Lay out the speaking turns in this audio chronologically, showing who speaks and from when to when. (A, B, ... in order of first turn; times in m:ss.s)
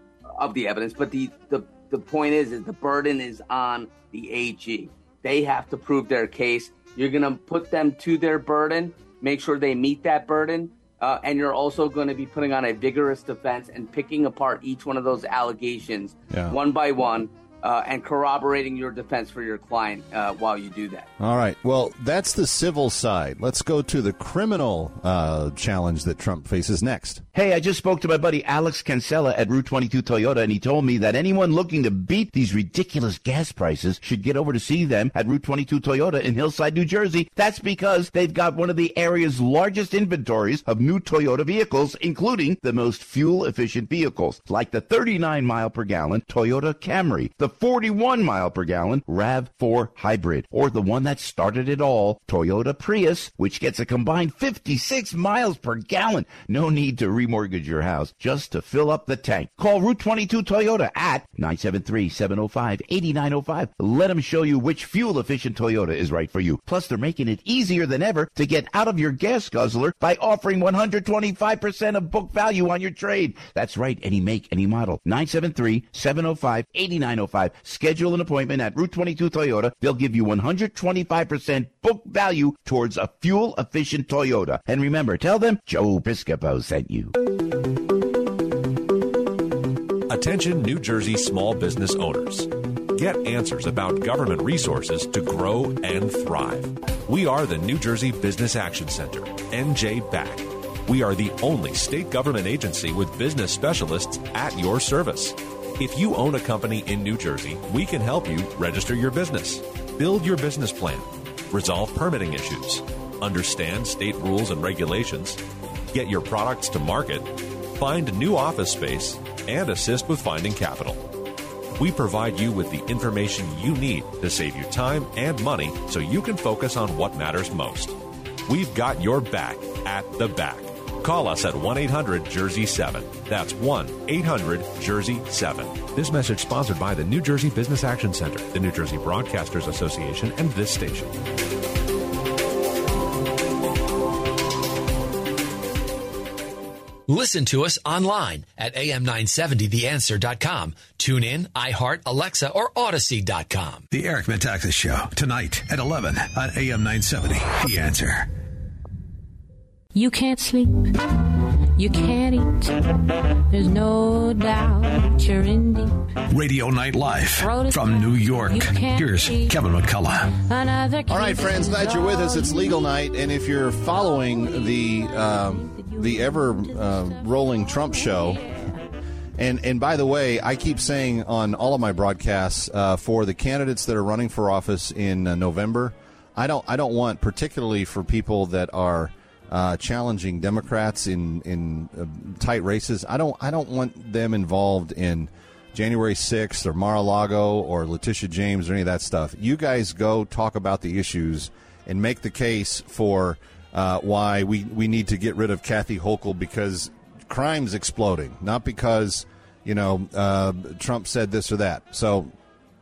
0:00.4-0:21.1 A
0:16.3-0:16.6 B
0:21.2-0:27.2 B
0:27.4-1:27.2 C
1:30.1-1:55.4 D
1:55.9-2:01.0 D
2:01.8-2:21.2 D
2:27.1-2:33.8 E
2:33.9-2:38.3 F
2:39.9-2:46.0 G
2:46.3-2:50.3 F
2:47.4-2:49.6 G
2:50.4-2:52.8 G
2:51.1-2:58.4 B
2:55.6-2:58.4 G
2:59.4-3:32.3 B